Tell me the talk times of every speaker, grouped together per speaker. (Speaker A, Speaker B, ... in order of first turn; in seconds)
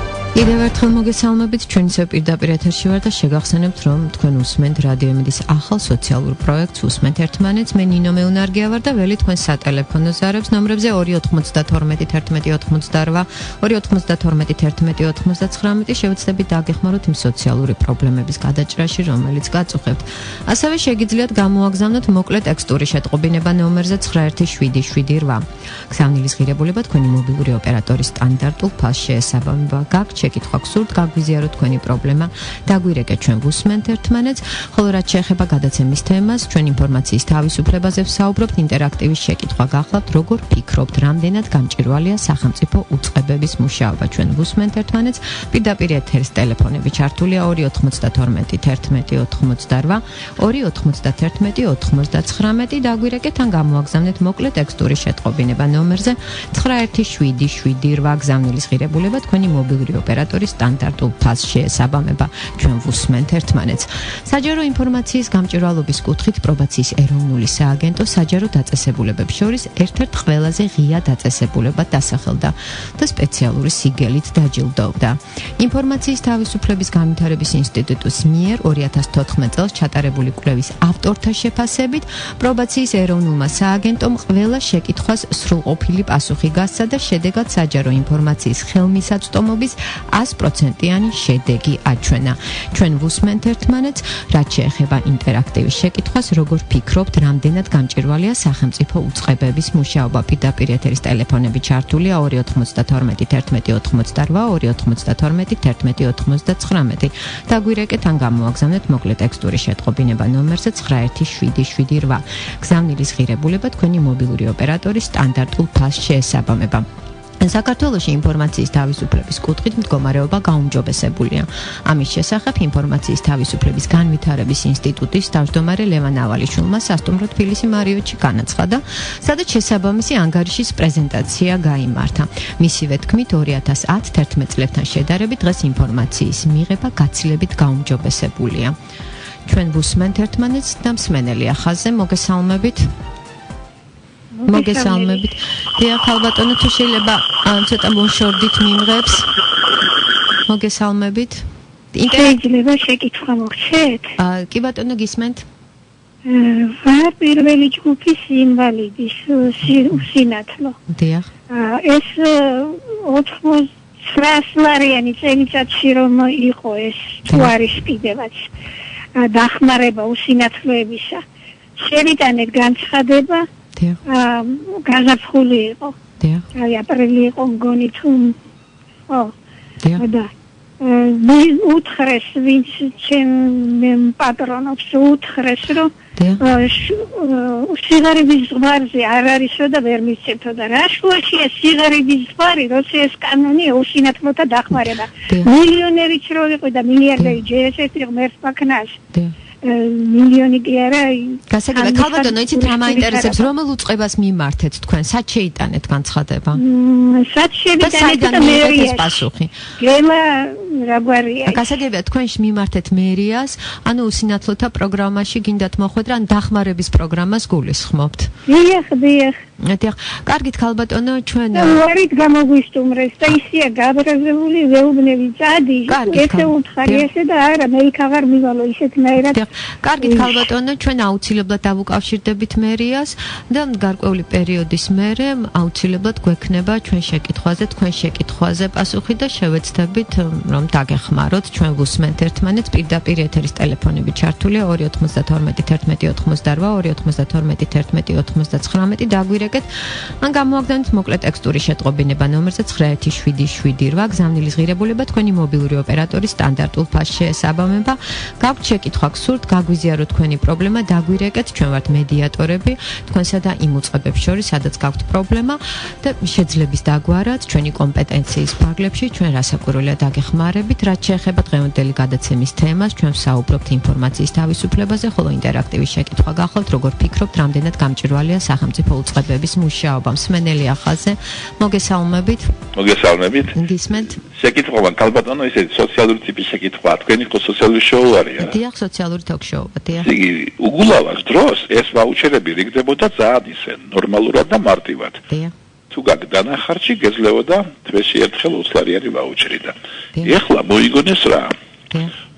Speaker A: 0.3-116.9, 117.4-138.8, 139.4-142.9, 144.5-149.3, 150.4-152.4, 154.2-155.4, 160.9-161.3, 167.3-167.5, 176.2-176.4, 186.2-186.4, 201.5-206.6, 207.8-209.7, 211.4-218.3, 219.6-221.8, 225.9-227.1, 229.2-282.5, 283.5-284.2, 288.4-290.1, 295.3-295.5
Speaker B: 144.3-145.2, 152.1-154.1, 156.2-160.8, 161.5-168.5, 169.2-171.2, 171.8-173.4, 174.1-175.9, 176.5-178.3, 179.1-179.3, 179.9-180.3, 180.8-199.0, 199.6-203.5, 206.6-209.2, 209.8-211.6, 218.5-219.3, 221.5-229.4, 230.0-230.4
Speaker C: 282.7-283.6, 284.3-288.6, 290.0-295.2, 295.9-301.5